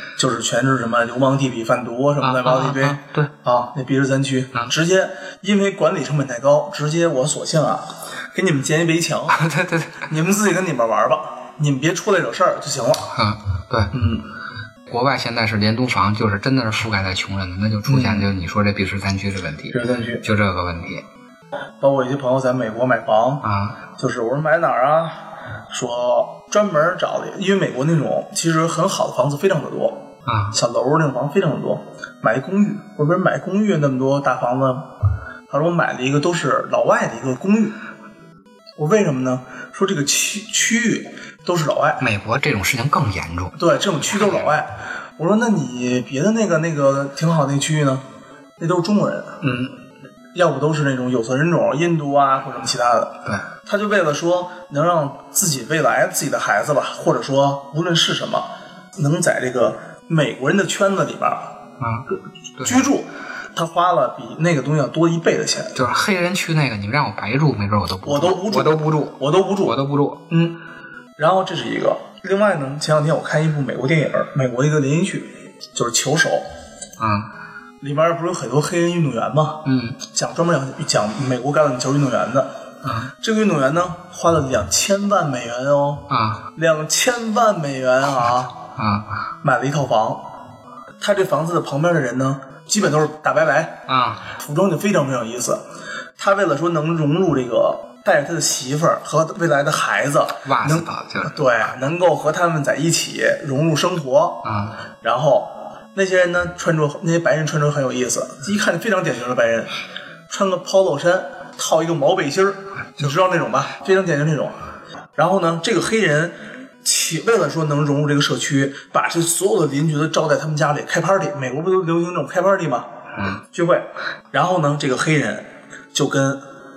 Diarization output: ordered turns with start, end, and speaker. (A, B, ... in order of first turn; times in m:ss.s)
0:00.2-0:09.4 A
0:02.2-0:03.3 B
0:09.3-0:10.1 B
0:10.0-0:13.1 A
0:13.1-0:13.9 B
0:13.9-0:14.3 A
0:14.9-0:21.0 B
0:17.9-0:18.3 A
0:19.7-0:20.2 A
0:21.8-0:23.4 A
0:23.4-0:23.8 B
0:24.0-0:34.9 A
0:30.3-0:30.6 B
0:35.5-0:37.8 A
0:38.8-0:42.0 A
0:42.0-0:44.5 B
0:43.6-0:48.0 A
0:48.6-0:49.4 A
0:49.4-0:49.8 B
0:50.4-1:01.5 A
1:01.8-1:02.9 B
1:02.6-1:05.8 A
1:05.7-1:10.2 B
1:08.0-1:09.8 A
1:10.3-1:10.6 A
1:11.2-1:16.4 A
1:17.0-1:17.3 B
1:17.8-1:22.5 A
1:19.6-1:20.0 B
1:22.8-1:23.1 B
1:23.2-1:28.6 A
1:26.1-1:26.5 B
1:28.8-1:29.2 B
1:29.4-1:30.2 A
1:31.0-1:33.8 A
1:33.9-1:34.3 B
1:34.4-1:35.6 A
1:36.2-1:44.5 A
1:40.4-1:41.6 B
1:44.4-1:44.8 B
1:45.0-1:49.7 A
1:50.3-1:54.5 A
1:55.2-2:02.9 A
2:03.1-2:03.4 B
2:03.5-2:06.4 A